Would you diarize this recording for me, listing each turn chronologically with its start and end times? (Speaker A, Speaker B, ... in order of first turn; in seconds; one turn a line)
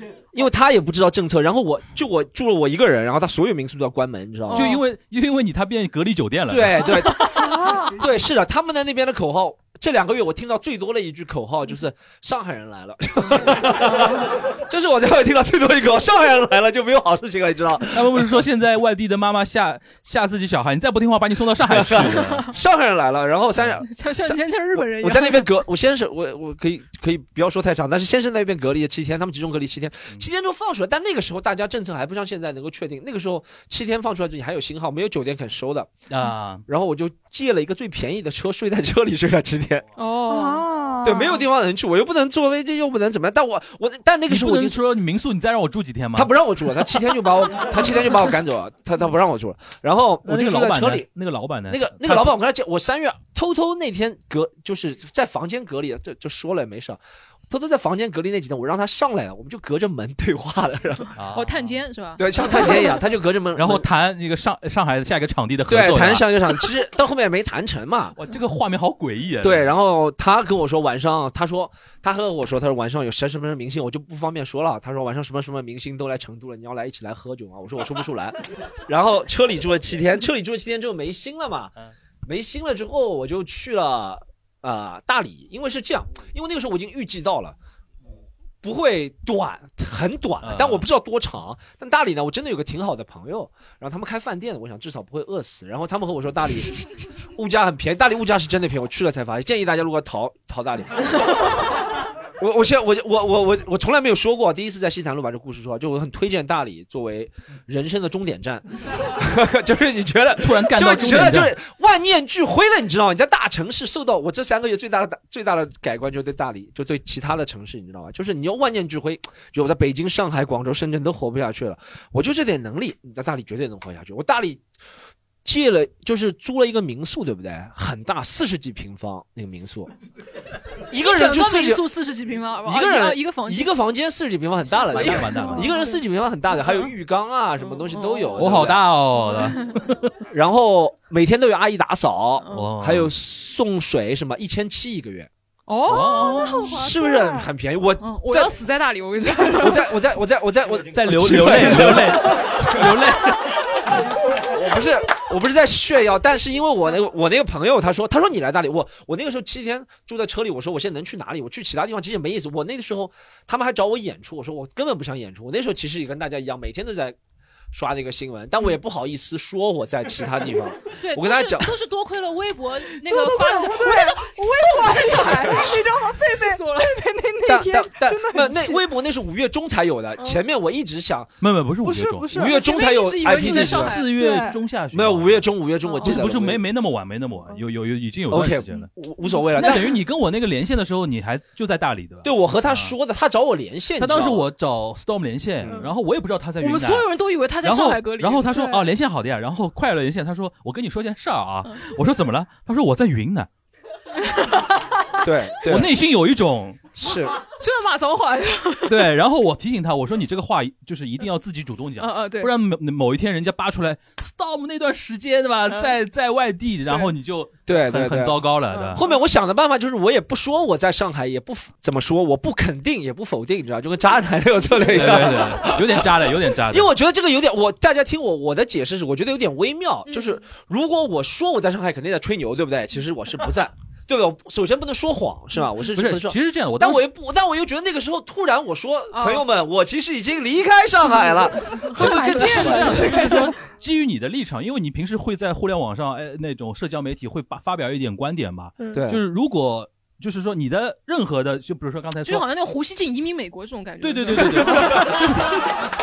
Speaker A: 0.3-4.8
Speaker B: 4.5-4.8
Speaker C: 4.5-7.2
Speaker A: 6.5-18.3
Speaker D: 7.4-7.9
Speaker C: 17.9-22.5
Speaker A: 21.7-35.9
Speaker B: 22.1-22.5
Speaker B: 23.8-25.5
Speaker C: 36.1-36.6
Speaker A: 36.7-39.9
Speaker B: 40.0-40.7
Speaker D: 40.3-41.4
Speaker A: 41.0-44.8
Speaker C: 44.3-46.4
Speaker A: 46.1-51.1
Speaker C: 50.2-52.4
Speaker A: 51.7-61.1
Speaker C: 61.2-61.8
Speaker B: 61.3-62.9
Speaker A: 62.2-63.9
Speaker C: 63.5-66.4
Speaker A: 65.7-68.2
Speaker C: 68.2-69.7
Speaker A: 69.4-81.7
Speaker A: 82.2-87.6
Speaker A: 88.6-101.4
Speaker C: 90.4-90.9
Speaker A: 102.4-124.6
Speaker C: 110.4-111.5
Speaker A: 125.5-129.9
Speaker A: 130.9-131.9
Speaker B: 131.0-133.8
Speaker A: 132.7-138.9
Speaker B: 134.8-136.0
Speaker C: 134.9-135.8
Speaker B: 136.5-136.9
Speaker B: 137.6-138.4
Speaker C: 138.3-140.1
Speaker B: 139.2-139.8
Speaker A: 140.3-145.3
Speaker B: 142.4-142.7
Speaker C: 142.5-143.1
Speaker B: 145.7-146.4
Speaker C: 145.9-146.7
Speaker D: 145.9-147.5
Speaker A: 146.7-148.5
Speaker B: 148.0-149.9
Speaker A: 149.6-152.8
Speaker C: 150.9-153.4
Speaker A: 154.4-167.2
Speaker A: 167.7-171.7
Speaker B: 171.0-177.0
Speaker D: 173.1-178.8
Speaker A: 177.5-181.3
Speaker C: 181.4-182.4
Speaker D: 181.8-182.6
Speaker A: 182.3-184.0
Speaker B: 182.4-184.1
Speaker C: 183.2-185.5
Speaker D: 184.1-184.6
Speaker A: 184.9-186.6
Speaker B: 185.9-186.2
Speaker C: 186.0-188.9
Speaker A: 188.3-189.9
Speaker C: 189.6-192.9
Speaker A: 192.2-194.5
Speaker C: 194.0-203.5
Speaker B: 196.6-198.7
Speaker D: 198.6-198.8
Speaker B: 204.2-204.7
Speaker A: 205.2-206.0
Speaker C: 205.7-206.9
Speaker A: 207.0-207.4
Speaker B: 207.5-209.1
Speaker C: 208.9-219.0
Speaker B: 212.0-212.5
Speaker A: 217.7-243.4
Speaker B: 218.7-219.2
Speaker C: 224.8-226.9
Speaker B: 230.1-230.4
Speaker C: 235.9-237.0
Speaker B: 239.1-239.4
Speaker B: 241.8-243.4
Speaker C: 241.9-252.5
Speaker A: 248.9-249.2
Speaker B: 252.2-255.7
Speaker C: 254.0-255.6